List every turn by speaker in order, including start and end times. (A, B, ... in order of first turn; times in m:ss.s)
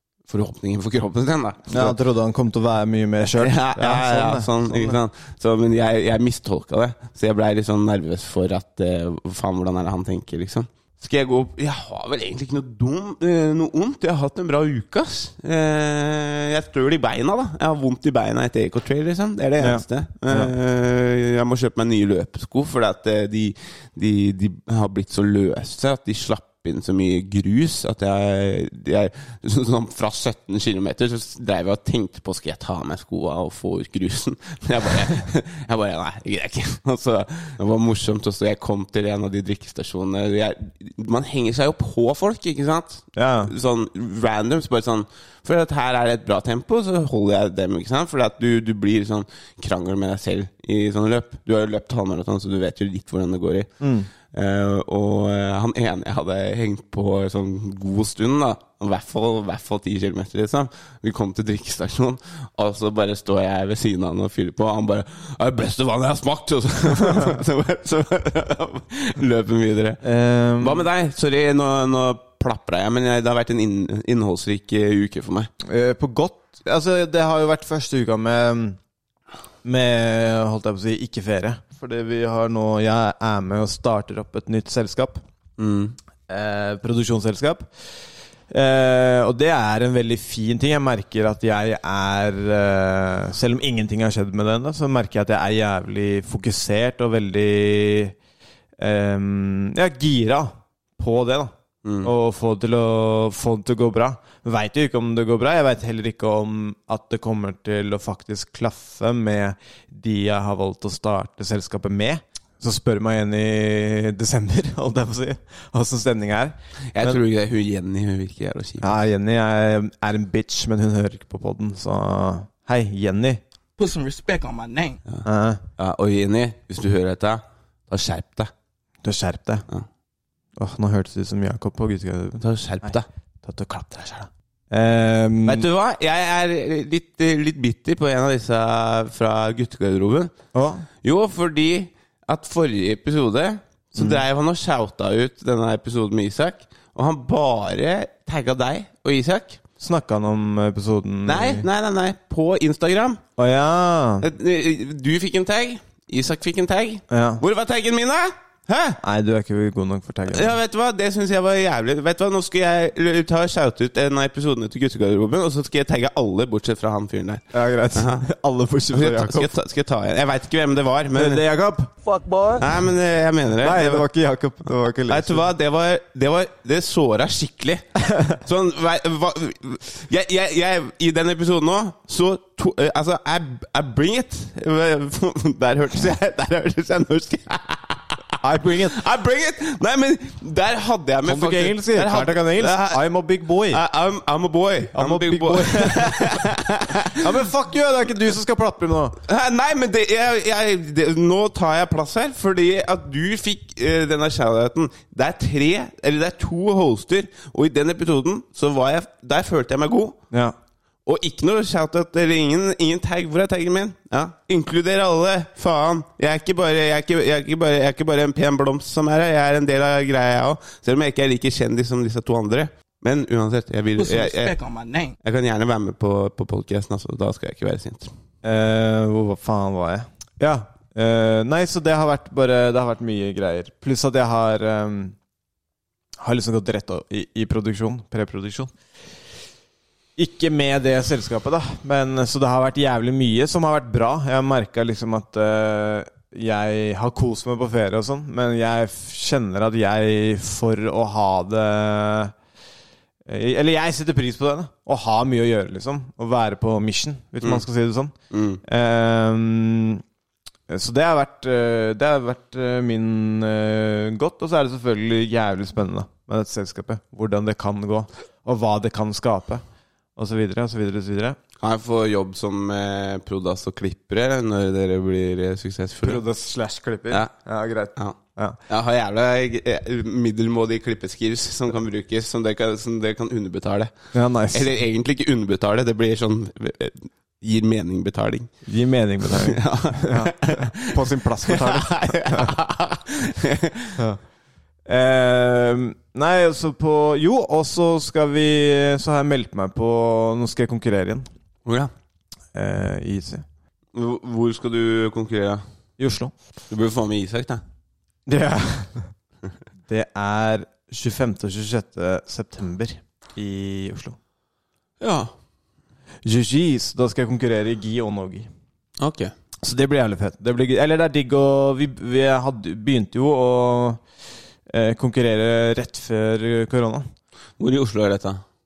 0:00.3-0:02.0 A
0:01.7-0:05.0 B
0:03.4-0:53.7 A
0:19.6-0:20.5 B
0:43.2-0:43.5 B
0:53.8-0:54.1 B
0:54.3-1:10.0 A
1:10.0-1:10.8 B
1:10.6-1:15.5 A
1:15.6-1:18.8 B
1:19.6-1:25.2 B
1:25.6-1:26.0 A
1:26.3-1:27.7 B
1:28.5-1:38.1 B
1:38.8-1:41.5 B
1:41.8-1:42.1 A
1:42.0-1:57.2 B
1:56.9-1:58.9 A
1:58.8-2:03.4 B
2:03.8-2:05.0 C
2:05.2-2:05.6 B
2:05.8-2:08.5 A
2:09.0-2:09.6 B
2:10.6-2:15.6 B
2:12.4-2:13.0 A
2:15.4-2:20.3 A
2:20.5-2:20.8 B
2:21.0-2:29.6 A
2:24.0-2:24.2 B
2:29.8-2:31.7 B
2:31.2-2:33.2 A
2:33.4-2:34.2 B
2:34.2-2:39.0 A
2:37.1-2:37.4 B
2:39.0-2:40.6 B
2:40.3-2:48.2 A
2:47.5-2:49.5 B
2:48.9-2:51.4 A
2:51.2-2:51.9 B
2:52.5-2:54.1 A
2:53.6-2:55.4 B
2:55.1-3:13.1 A
3:08.4-3:09.0 B
3:11.2-3:13.8 B
3:13.6-3:17.3 A
3:14.9-3:16.5 B
3:17.1-3:19.2 B
3:19.2-3:30.2 A
3:31.0-3:44.5 A
3:44.0-3:45.1 C
3:45.2-3:48.1 A
3:48.4-3:55.2 B
3:56.2-3:58.7 B
4:00.2-4:12.3 B
4:13.2-4:18.1 B
4:18.3-4:18.6 A
4:18.6-4:20.0 B
4:20.7-4:29.6 B
4:30.2-4:31.4 B
4:31.6-4:36.2 A
4:36.0-4:38.6 B
4:38.7-4:43.9 A
4:44.1-4:44.6 B
4:44.5-4:48.5 A
4:48.6-4:52.6 B
4:49.2-4:54.0 A
4:54.8-5:01.3 B
5:01.6-5:01.9 A
5:02.5-5:03.4 B
5:03.9-5:05.6 A
5:06.0-5:06.3 B
5:06.7-5:07.6 A
5:08.3-5:09.1 B
5:09.9-5:14.2 B
5:15.0-5:15.3 A
5:16.2-5:18.5 B
5:19.0-5:19.3 A
5:19.6-5:24.0 B
5:24.7-5:27.1 B
5:27.6-5:28.4 A